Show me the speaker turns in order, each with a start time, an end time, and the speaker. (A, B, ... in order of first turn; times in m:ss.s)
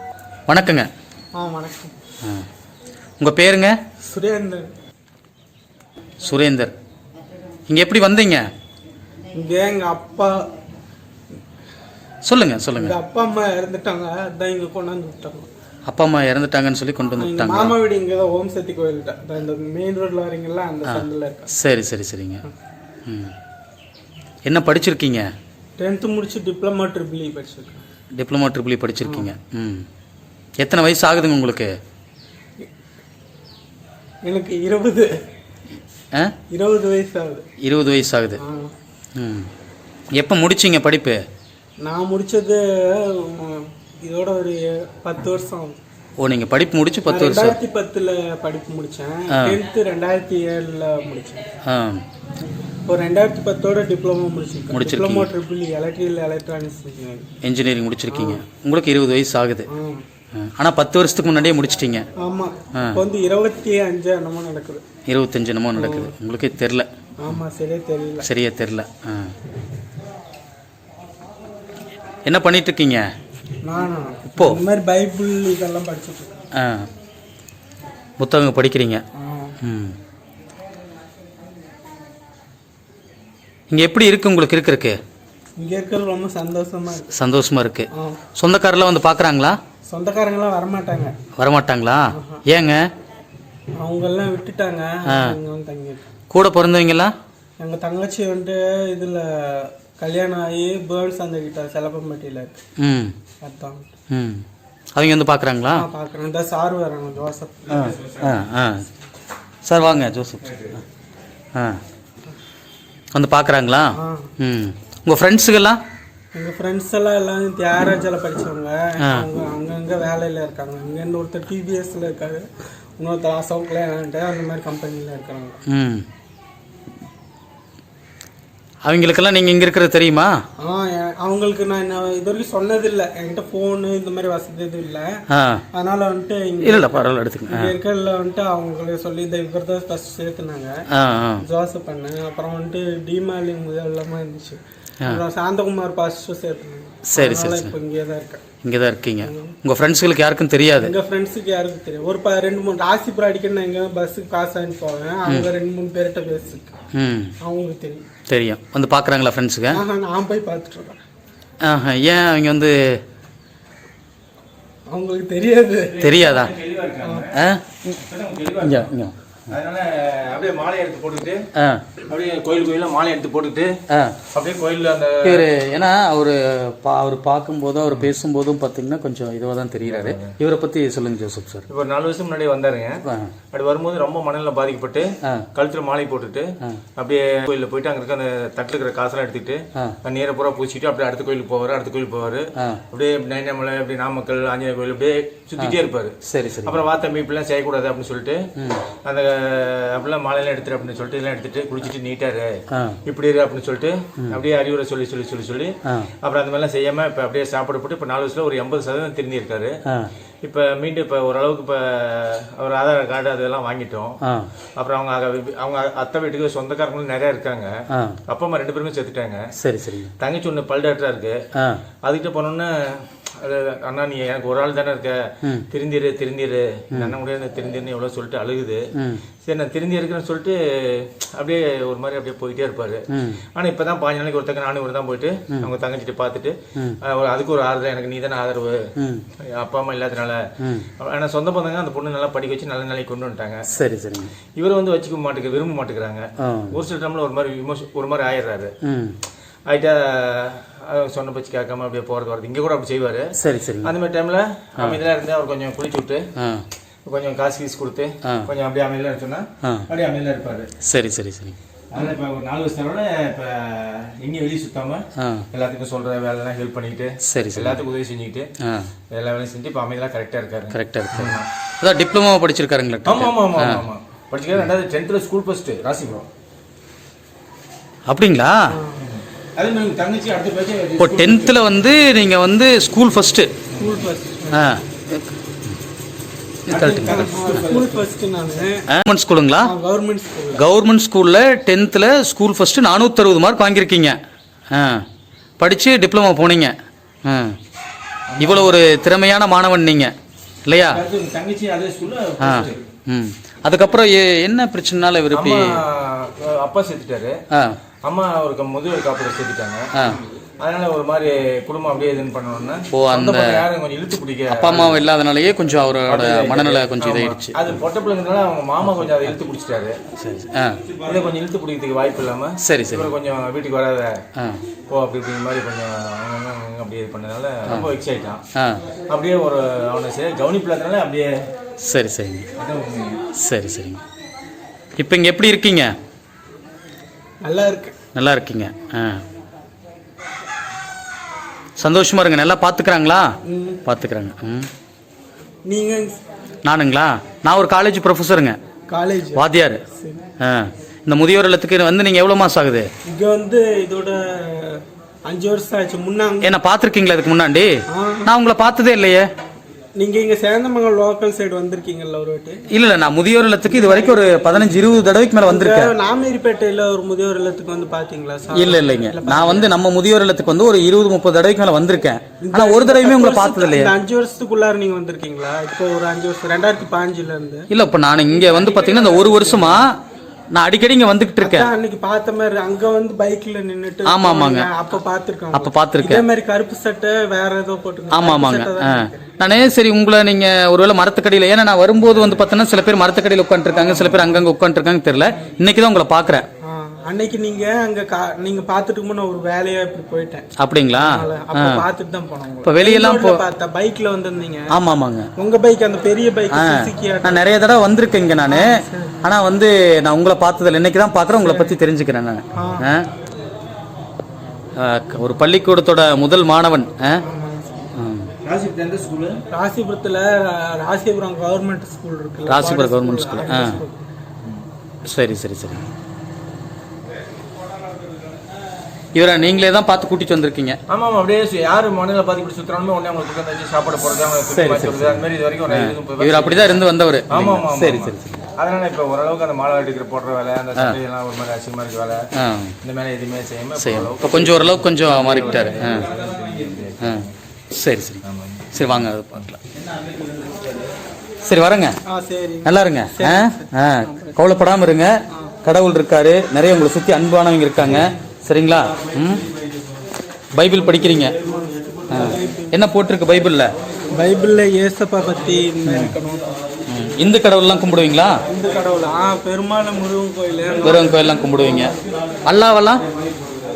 0:00.5-0:00.9 A
0:01.4-0:01.9 B
0:03.2-0:03.7 A
0:04.0-0:04.7 B
0:06.2-0:06.7 A
0:07.7-0:08.4 A
0:09.3-0:10.4 B
0:12.2-0:13.0 A
0:12.8-0:15.5 B
0:15.9-0:17.8 A
0:17.2-0:21.5 B
0:20.9-0:22.4 A
0:23.1-0:23.3 A
0:24.4-0:25.3 A
0:25.8-0:27.8 B
0:28.1-0:29.9 A
0:29.0-0:29.3 B
0:30.6-0:31.7 A
0:34.2-0:35.1 B
0:36.5-0:37.4 B
0:37.6-0:38.4 A
0:38.4-0:38.7 B
0:39.2-0:39.5 A
0:40.2-0:41.2 A
0:41.8-0:45.8 B
0:46.2-0:47.6 A
0:47.1-0:51.4 B
0:51.7-0:52.0 A
0:52.9-0:57.3 B
0:54.7-0:55.3 A
0:57.4-0:59.7 A
0:58.1-0:58.4 B
0:59.7-1:00.0 B
1:00.3-1:02.1 A
1:02.2-1:04.8 B
1:02.8-1:03.0 A
1:05.1-1:07.4 A
1:05.8-1:06.1 B
1:07.2-1:08.3 B
1:08.2-1:09.3 A
1:12.2-1:13.1 A
1:13.6-1:16.4 B
1:16.6-1:16.9 A
1:18.2-1:19.0 A
1:19.2-1:19.6 B
1:19.6-1:20.0 A
1:23.7-1:25.0 A
1:25.6-1:27.1 B
1:27.1-1:29.6 A
1:27.9-1:28.2 B
1:29.9-1:31.1 B
1:31.4-1:32.8 A
1:32.1-1:32.4 B
1:33.8-1:36.1 B
1:35.1-1:35.4 A
1:36.3-1:37.1 A
1:37.6-1:42.6 B
1:42.8-1:43.1 A
1:43.4-1:43.9 B
1:44.1-1:44.4 A
1:45.0-1:45.8 A
1:45.7-1:48.0 B
1:47.7-1:48.9 A
1:49.6-1:50.7 A
1:51.6-1:51.8 A
1:53.1-1:55.8 A
1:54.0-1:54.3 B
1:56.3-2:02.5 B
1:59.0-1:59.3 A
2:03.0-2:05.6 B
2:05.7-2:06.0 A
2:08.8-2:10.4 A
2:10.6-2:15.2 B
2:15.3-2:15.6 A
2:15.7-2:20.8 B
2:16.6-2:17.7 A
2:20.9-2:21.4 A
2:21.4-2:28.4 B
2:27.1-2:27.8 A
2:28.6-2:30.9 A
2:29.2-2:29.6 B
2:30.8-2:36.7 B
2:36.9-2:37.3 A
2:37.4-2:38.1 B
2:38.3-2:39.8 A
2:39.7-2:41.0 B
2:41.6-2:42.8 A
2:44.9-2:46.1 B
2:46.0-2:46.5 A
2:46.0-2:47.4 C
2:47.3-2:47.6 A
2:48.0-2:48.9 C
2:48.6-2:49.2 A
2:49.5-2:51.4 C
2:51.6-2:51.8 A
2:52.1-2:53.8 C
2:53.9-2:54.2 A
2:54.3-2:55.5 C
2:55.2-3:01.6 A
2:59.9-3:00.4 C
3:01.7-3:03.0 C
3:03.0-3:03.3 A
3:03.5-3:18.5 C
3:15.6-3:16.8 A
3:18.6-3:18.8 A
3:19.0-3:29.8 C
3:22.7-3:23.0 A
3:30.4-3:34.2 C
3:34.2-3:34.5 A
3:34.8-3:37.7 C
3:37.9-3:38.2 A
3:38.3-3:39.4 C
3:39.6-3:40.1 A
3:40.2-3:41.4 C
3:41.6-3:41.8 A
3:42.0-3:48.9 C
3:49.0-3:49.2 A
3:49.5-3:58.8 C
3:53.1-3:53.4 A
3:59.0-3:59.2 A
3:59.5-4:00.4 C
4:00.6-4:00.9 A
4:01.0-4:03.7 C
4:03.7-4:04.3 A
4:04.6-4:08.7 C
4:06.4-4:06.8 A
4:08.8-4:09.2 A
4:09.7-4:16.3 C
4:13.4-4:13.9 A
4:16.4-4:16.6 A
4:17.1-4:20.7 C
4:18.2-4:18.5 A
4:19.6-4:19.9 A
4:20.8-4:21.6 A
4:21.9-4:28.5 C
4:25.2-4:25.5 A
4:27.2-4:27.8 A
4:28.6-4:28.9 A
4:29.1-4:31.5 C
4:30.7-4:33.8 A
4:33.1-4:36.3 C
4:38.1-4:38.7 A
4:38.7-4:39.0 B
4:39.0-4:41.6 C
4:41.0-4:43.5 A
4:43.8-4:44.7 B
4:43.8-4:44.0 C
4:44.5-4:45.8 A
4:46.7-4:47.7 A
4:46.7-4:48.0 C
4:47.0-4:48.9 B
4:48.9-4:49.7 A
4:49.6-4:50.6 B
4:50.6-4:54.2 A
4:54.7-4:55.0 A
4:55.6-4:56.7 A
4:57.2-4:57.6 A
4:58.3-4:58.8 C
4:58.4-5:00.1 A
5:00.7-5:01.0 A
5:00.9-5:02.8 C
5:02.4-5:05.8 A
5:05.3-5:07.4 C
5:08.0-5:15.0 C
5:09.9-5:10.2 A
5:12.9-5:13.7 A
5:14.5-5:17.6 A
5:16.1-5:20.0 C
5:20.2-5:20.8 A
5:21.0-5:24.2 C
5:22.6-5:23.1 A
5:24.9-5:28.4 C
5:28.6-5:28.8 A
5:29.1-5:31.4 C
5:31.8-5:32.5 A
5:32.6-5:33.2 C
5:33.4-5:34.0 A
5:35.0-5:35.9 A
5:37.4-5:37.9 B
5:38.2-5:39.2 A
5:41.8-5:43.3 A
5:43.5-5:43.8 B
5:43.8-5:44.7 A
5:45.7-5:46.2 B
5:46.6-5:48.6 A
5:48.9-5:50.2 B
5:49.4-5:49.8 A
5:50.4-5:52.9 A
5:53.1-5:56.5 B
5:56.4-5:57.7 A
5:57.9-5:58.3 B
5:58.2-5:59.3 A
6:00.0-6:02.6 B
6:02.7-6:05.9 A
6:03.6-6:04.9 B
6:05.4-6:09.7 B
6:08.5-6:13.9 A
6:12.4-6:17.7 B
6:17.7-6:20.0 A
6:18.8-6:19.6 C
6:20.5-6:21.7 A
6:21.4-6:29.3 B
6:24.1-6:24.7 A
6:25.5-6:26.2 A
6:28.1-6:36.5 A
6:33.7-6:34.4 B
6:36.6-6:44.7 B
6:40.6-6:41.8 A
6:42.6-6:43.4 A
6:44.7-6:45.3 A
6:45.4-6:47.6 B
6:46.5-6:53.1 A
6:48.5-6:49.2 B
6:51.3-6:51.8 B
6:52.6-6:52.9 B
6:54.8-6:57.2 A
6:57.2-6:57.9 B
6:58.0-6:58.3 A
6:58.4-6:59.4 C
6:59.5-7:04.0 B
7:02.5-7:03.8 A
7:05.0-7:05.9 A
7:09.2-7:10.8 A
7:10.9-7:22.2 C
7:14.5-7:18.5 A
7:22.4-7:22.8 A
7:22.8-7:27.3 C
7:23.8-7:26.1 A
7:27.0-7:28.2 A
7:28.2-7:29.2 C
7:28.7-7:29.6 A
7:30.0-7:30.5 C
7:31.4-7:32.0 A
7:32.1-7:34.6 B
7:32.6-7:35.1 A
7:35.6-7:39.4 A
7:37.8-7:38.2 B
7:40.5-7:41.4 A
7:41.4-7:42.8 B
7:42.1-7:43.7 A
7:44.1-7:46.5 B
7:45.9-7:46.1 A
7:46.9-7:48.4 A
7:48.5-7:51.9 B
7:50.8-7:52.0 A
7:52.5-7:53.0 A